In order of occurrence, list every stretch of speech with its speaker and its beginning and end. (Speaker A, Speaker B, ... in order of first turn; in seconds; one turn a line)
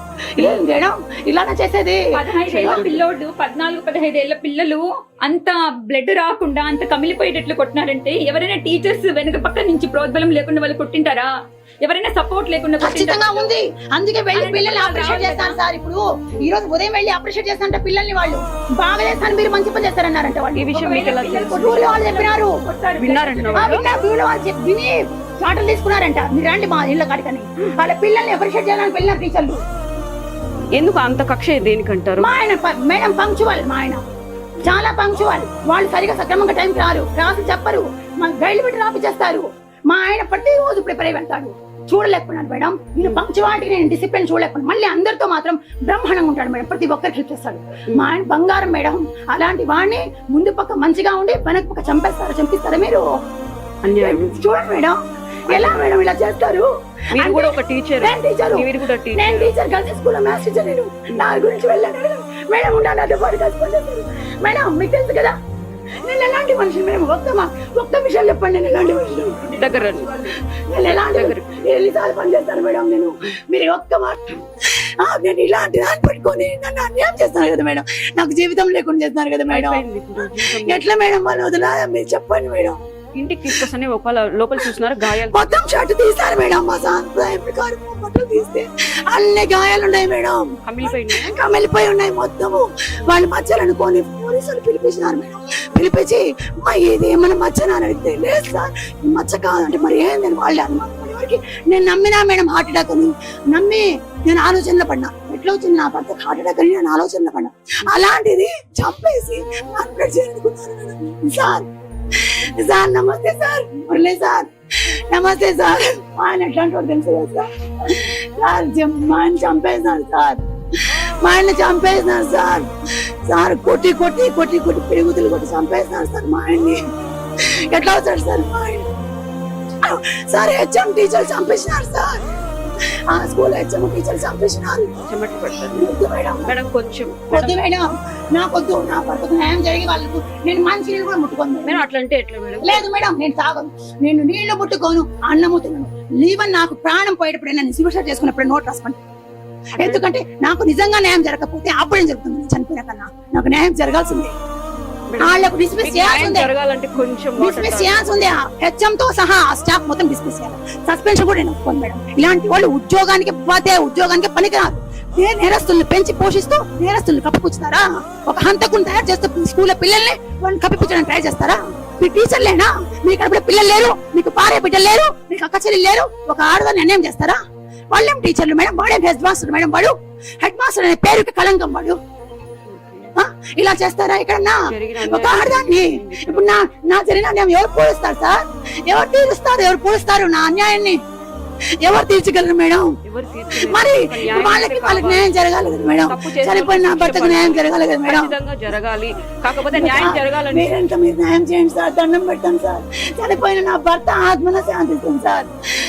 Speaker A: 0.4-2.0
Speaker B: 2.1-13.6
Speaker C: 2.4-3.0
Speaker A: 2.5-2.8
Speaker A: 12.8-22.6
Speaker B: 14.3-15.6
Speaker C: 20.6-22.0
Speaker B: 20.9-23.8
Speaker C: 23.0-23.8
Speaker A: 23.5-29.6
Speaker C: 30.7-32.3
Speaker A: 32.2-34.0
Speaker A: 34.6-53.0
Speaker C: 53.8-54.4
Speaker A: 54.0-55.0
Speaker A: 55.5-65.3
Speaker C: 55.5-55.9
Speaker C: 57.1-59.5
Speaker A: 66.0-69.6
Speaker C: 69.6-70.1
Speaker A: 70.2-74.2
Speaker C: 70.8-71.5
Speaker A: 75.0-79.8
Speaker C: 79.5-80.8
Speaker A: 80.6-82.8
Speaker C: 83.2-85.8
Speaker A: 85.3-111.6
Speaker C: 90.7-91.3
Speaker A: 112.3-114.5
Speaker A: 115.1-120.4
Speaker A: 121.2-122.7
Speaker A: 123.2-126.8
Speaker A: 127.7-128.9
Speaker A: 129.8-132.2
Speaker A: 133.1-134.9
Speaker C: 135.1-135.8
Speaker A: 135.7-136.5
Speaker C: 136.5-137.6
Speaker A: 137.3-141.8
Speaker C: 141.6-142.9
Speaker A: 142.6-149.0
Speaker C: 149.8-150.0
Speaker A: 149.8-154.3
Speaker C: 155.1-158.2
Speaker A: 155.2-156.5
Speaker A: 157.4-177.4
Speaker A: 177.9-182.0
Speaker C: 182.7-183.1
Speaker A: 183.2-191.0
Speaker C: 184.7-186.6
Speaker A: 191.8-192.9
Speaker C: 193.1-195.3
Speaker A: 193.6-198.3
Speaker C: 195.9-200.8
Speaker A: 199.7-205.5